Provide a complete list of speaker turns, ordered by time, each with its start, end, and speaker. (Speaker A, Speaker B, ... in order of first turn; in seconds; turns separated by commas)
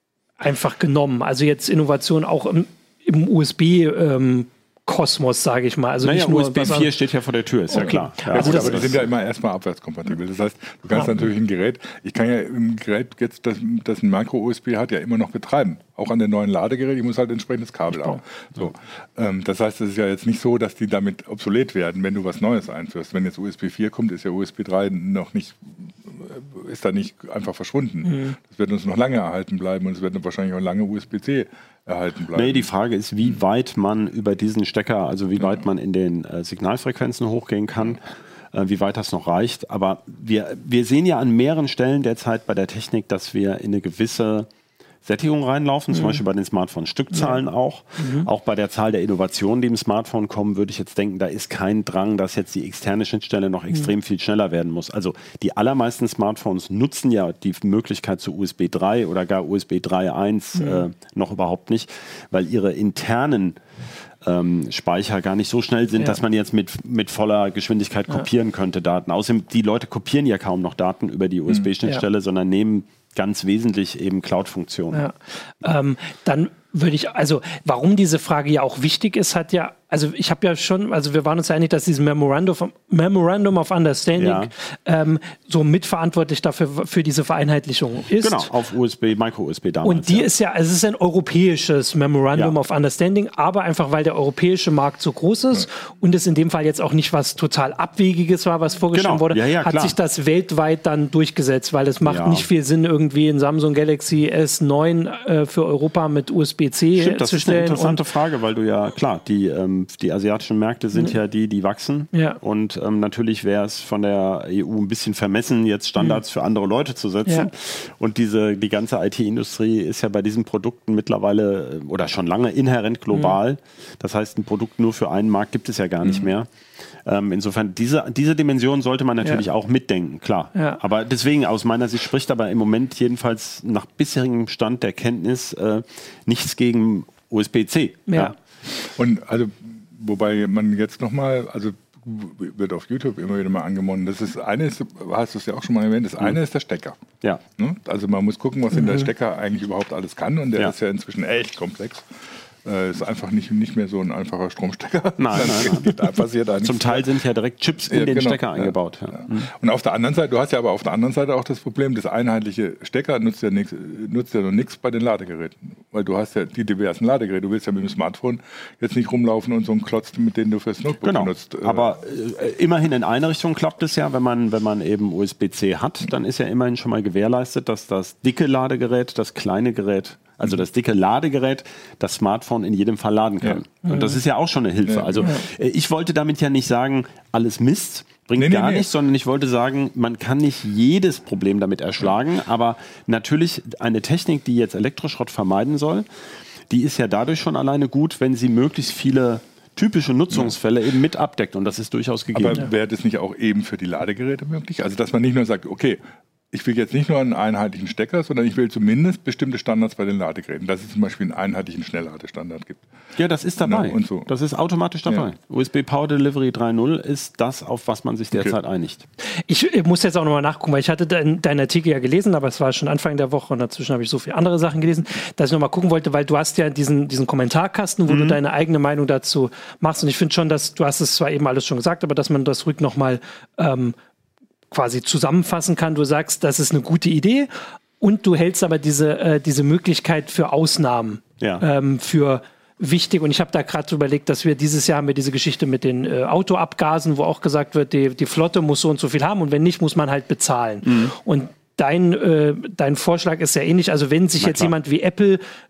Speaker A: 0.4-6.9, Speaker B: 6.0-9.1, Speaker A: 7.7-8.9, Speaker C: 7.8-32.7, Speaker A: 17.9-18.2, Speaker A: 28.0-28.4, Speaker B: 32.3-44.5, Speaker C: 35.4-35.6, Speaker B: 45.0-63.6, Speaker A: 45.9-46.2, Speaker A: 47.1-47.4, Speaker A: 48.0-48.3, Speaker A: 60.6-60.8, Speaker B: 64.2-75.0, Speaker A: 74.9-88.5, Speaker B: 84.2-84.5, Speaker B: 88.2-90.3, Speaker A: 89.8-108.0, Speaker B: 98.9-100.0, Speaker B: 102.0-102.5, Speaker B: 106.9-126.5, Speaker A: 112.1-112.4, Speaker B: 127.0-138.3, Speaker A: 130.5-130.8, Speaker A: 138.1-138.3, Speaker C: 138.8-147.0, Speaker C: 147.6-152.1, Speaker A: 148.7-149.1, Speaker C: 152.6-157.1, Speaker B: 155.2-155.9, Speaker B: 156.6-159.5, Speaker C: 157.9-171.9, Speaker B: 171.0-196.1, Speaker A: 183.8-184.2, Speaker C: 184.8-185.3, Speaker C: 188.3-188.9, Speaker B: 196.7-202.6, Speaker C: 202.3-206.0, Speaker C: 206.5-212.8, Speaker B: 213.2-219.0, Speaker C: 213.6-214.3, Speaker A: 219.5-233.9, Speaker B: 228.1-228.4, Speaker A: 234.7-237.5, Speaker A: 238.0-255.4, Speaker B: 250.8-251.1, Speaker B: 254.4-254.7